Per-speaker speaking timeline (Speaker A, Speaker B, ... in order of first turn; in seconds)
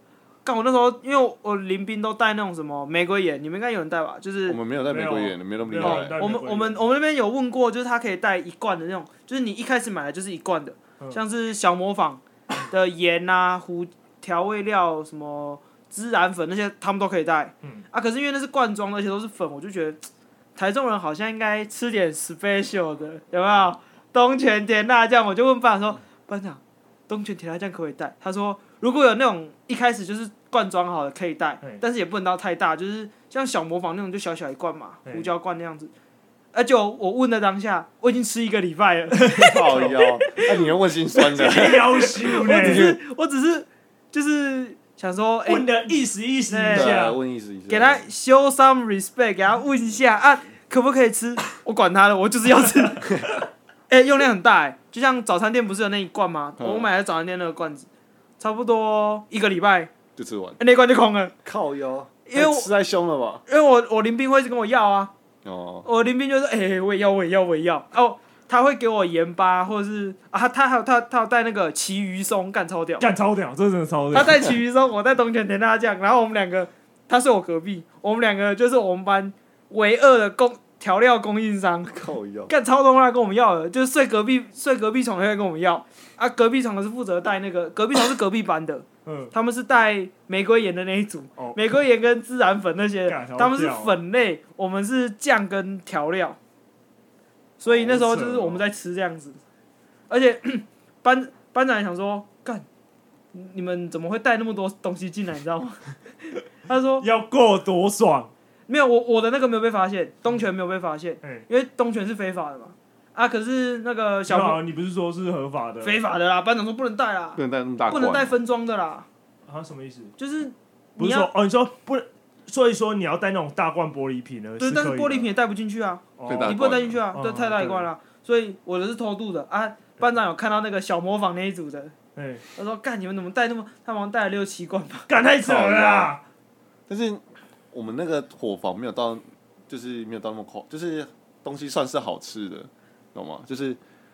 Speaker A: 0.4-4.6, 5.8-20.0, 20.6-35.9, 36.5-40.5, 41.4-41.7, 42.2-45.9, 46.5-47.0, 47.7-53.3, 53.9-57.9, 58.4-59.9, 60.6-61.3, 62.3-62.7, 63.5-65.1, 65.8-73.1, 74.1-81.9, 82.5-96.4, 97.6-99.4, 100.1-102.6, 103.3-105.8, 106.6-107.0, 108.7-114.6, 115.8-119.1, 120.2-121.3, 124.6-131.9, 132.6-135.1
Speaker B: 4.5-6.2, 39.3-43.0, 46.7-48.0, 53.0-53.4, 56.6-56.9, 60.1-60.6, 61.4-63.4, 65.4-65.9, 81.9-82.5, 117.4-118.3, 126.2-127.0, 135.4-136.1, 136.9-143.8
Speaker C: 4.9-6.8, 35.0-35.3, 39.2-39.9, 41.3-42.9, 45.5-47.2, 73.0-74.5, 89.0-89.3, 93.1-93.9, 97.7-98.6, 107.0-108.3, 111.2-111.5, 114.3-116.0, 119.5-120.1, 121.0-125.3, 126.2-126.6, 127.1-127.9, 132.2-132.4, 135.1-136.2